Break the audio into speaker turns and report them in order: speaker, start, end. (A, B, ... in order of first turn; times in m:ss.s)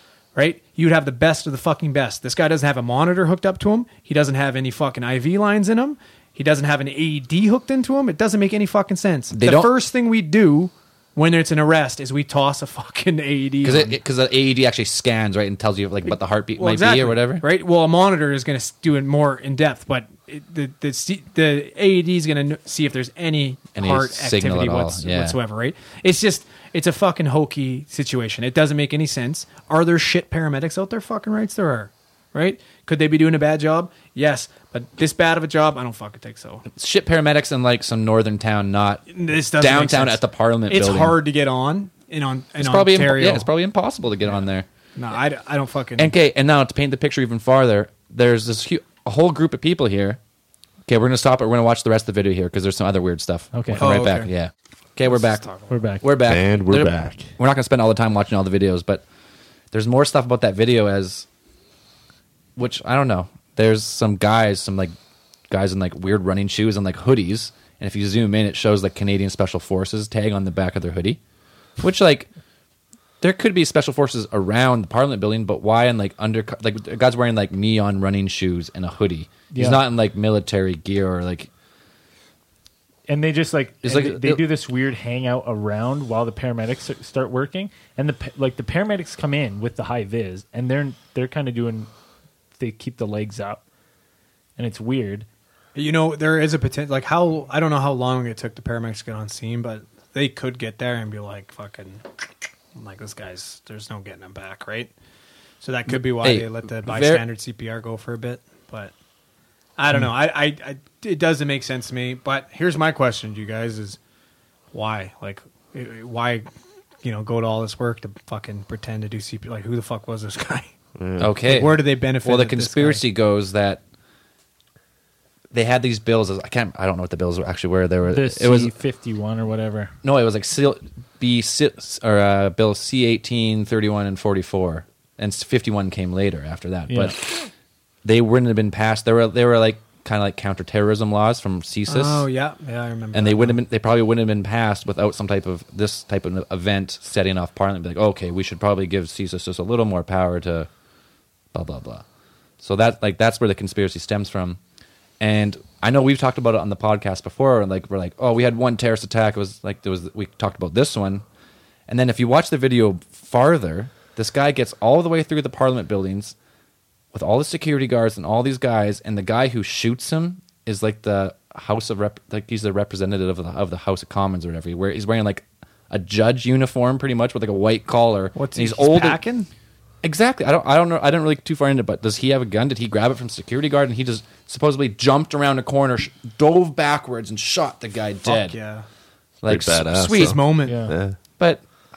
0:00.4-0:14.0 A
0:09.3-0:09.7 B
0:13.6-0:17.4 B
0:16.6-0:36.6 A
0:23.8-0:25.4 B
0:36.7-0:41.2 B
0:39.1-0:43.5 A
0:42.6-0:44.7 B
0:45.0-0:46.1 A
0:46.0-0:50.2 B
0:50.9-0:55.5 B
0:53.5-0:53.9 C
0:53.8-0:54.3 A
0:55.1-0:55.7 A
0:55.7-0:56.0 C
0:56.0-0:59.0 B
0:56.2-0:57.3 D
0:59.7-1:01.3 B
1:02.6-1:04.9 B
1:05.5-1:11.2 B
1:11.8-1:12.3 B
1:13.2-1:21.5 B
1:19.5-1:19.8 C
1:23.1-1:31.9 C
1:23.8-1:24.4 B
1:32.6-1:33.6 C
1:34.6-1:35.3 C
1:35.8-1:42.1 A
1:42.8-1:44.9 A
1:45.6-1:48.9 A
1:45.9-1:47.2 B
1:49.8-1:54.0 A
1:54.7-1:56.5 A
1:57.0-2:00.7 A
2:01.0-2:01.4 D
2:01.2-2:03.8 B
2:01.4-2:03.0 A
2:05.5-2:08.7 B
2:08.1-2:09.9 C
2:10.0-2:17.5 B
2:16.9-2:17.2 C
2:18.0-2:22.3 B
2:21.9-2:23.6 A
2:23.1-2:30.7 B
2:31.5-2:32.0 B
2:32.6-2:34.6 B
2:35.2-2:41.2 B
2:41.9-2:46.4 B
2:47.1-2:59.2 B
2:58.4-2:59.5 A
3:00.0-3:08.6 B
3:08.2-3:08.9 A
3:09.4-3:10.4 B
3:09.4-3:11.2 D
3:10.2-3:10.9 A
3:10.6-3:11.0 C